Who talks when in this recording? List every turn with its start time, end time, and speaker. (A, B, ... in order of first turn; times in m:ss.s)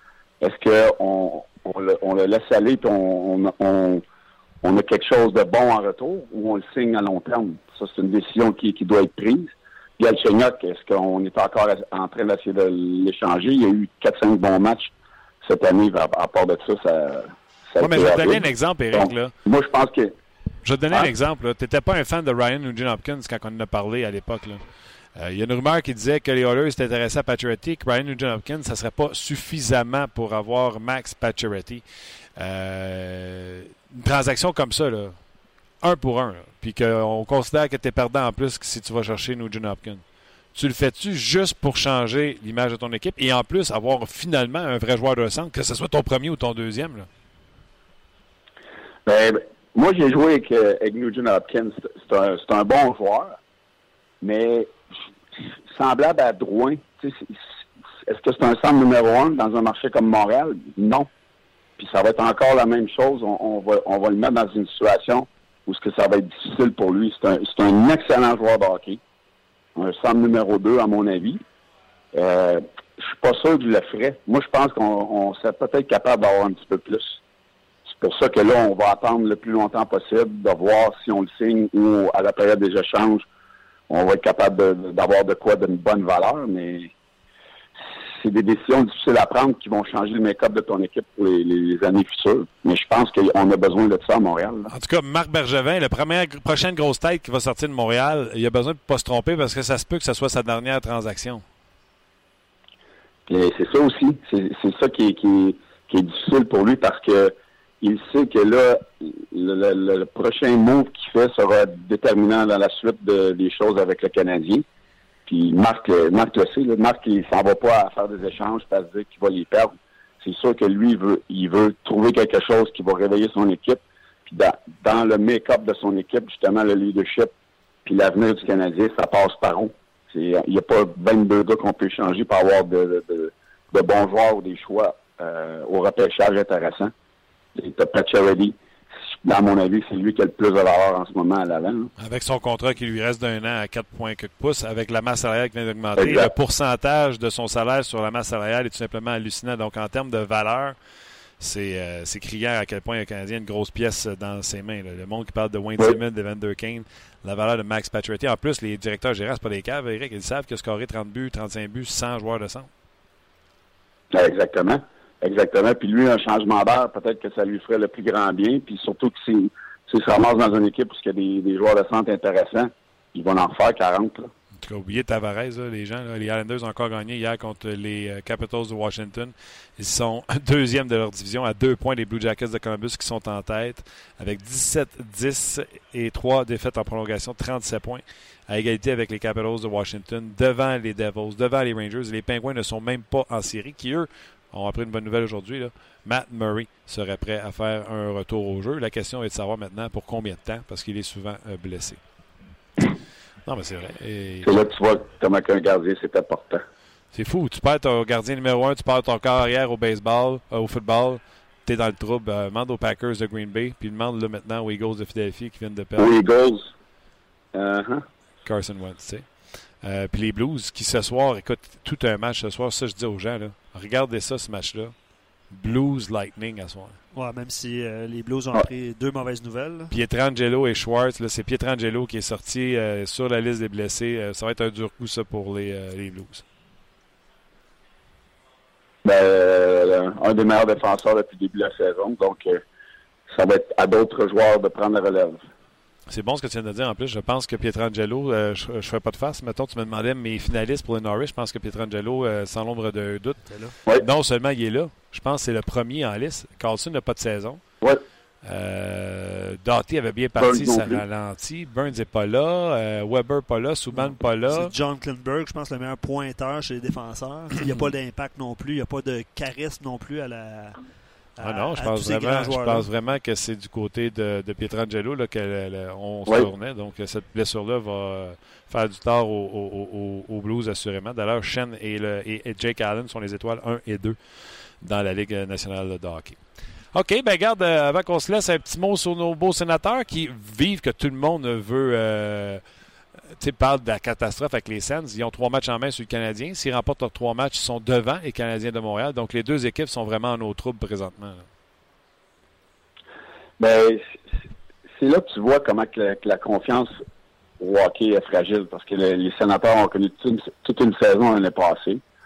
0:00.4-0:04.0 A
0:04.6-0:14.9 A
0:15.4-0:20.1 A
0:17.8-0:19.3 B
0:20.6-0:24.6 B
0:25.1-0:31.8 B
0:32.4-0:35.2 B
0:35.8-0:40.0 B
0:40.5-0:47.1 B
0:49.0-0:53.4 A
0:54.2-0:54.7 A
0:55.7-0:57.4 A
0:58.0-1:01.1 A
1:01.8-1:09.0 A
1:09.8-1:11.4 A
1:12.1-1:17.2 A
1:18.0-1:23.2 A
1:23.9-1:26.9 A
1:28.1-1:34.7 A
1:34.7-1:41.4 B
1:43.3-1:54.6 A
1:55.3-2:07.3 A
2:07.8-2:16.9 A
2:17.6-2:18.6 A
2:19.2-2:21.9 A
2:22.0-2:30.8 B
2:26.0-2:26.3 A
2:31.4-2:42.7 B
2:44.1-2:54.3 A
2:54.6-3:22.0 B
3:23.4-3:24.5 B
3:24.4-3:26.6 A
3:27.1-3:36.1 B
3:36.0-3:36.7 A
3:37.5-3:38.0 A
3:38.4-3:45.0 B
3:45.5-3:47.0 B
3:47.1-3:49.9 C
3:49.9-3:56.4 B
3:59.0-4:02.6 A
4:03.3-4:05.4 A
4:06.1-4:17.6 B
4:13.5-4:13.7 C
4:18.4-4:24.7 B
4:20.4-4:21.0 A
4:23.9-4:30.8 C
4:31.4-4:32.9 C
4:31.4-4:46.4 B
4:46.9-4:52.6 B
4:53.4-5:01.5 B
5:03.6-5:04.1 A
5:05.0-5:06.9 A
5:07.6-5:12.0 A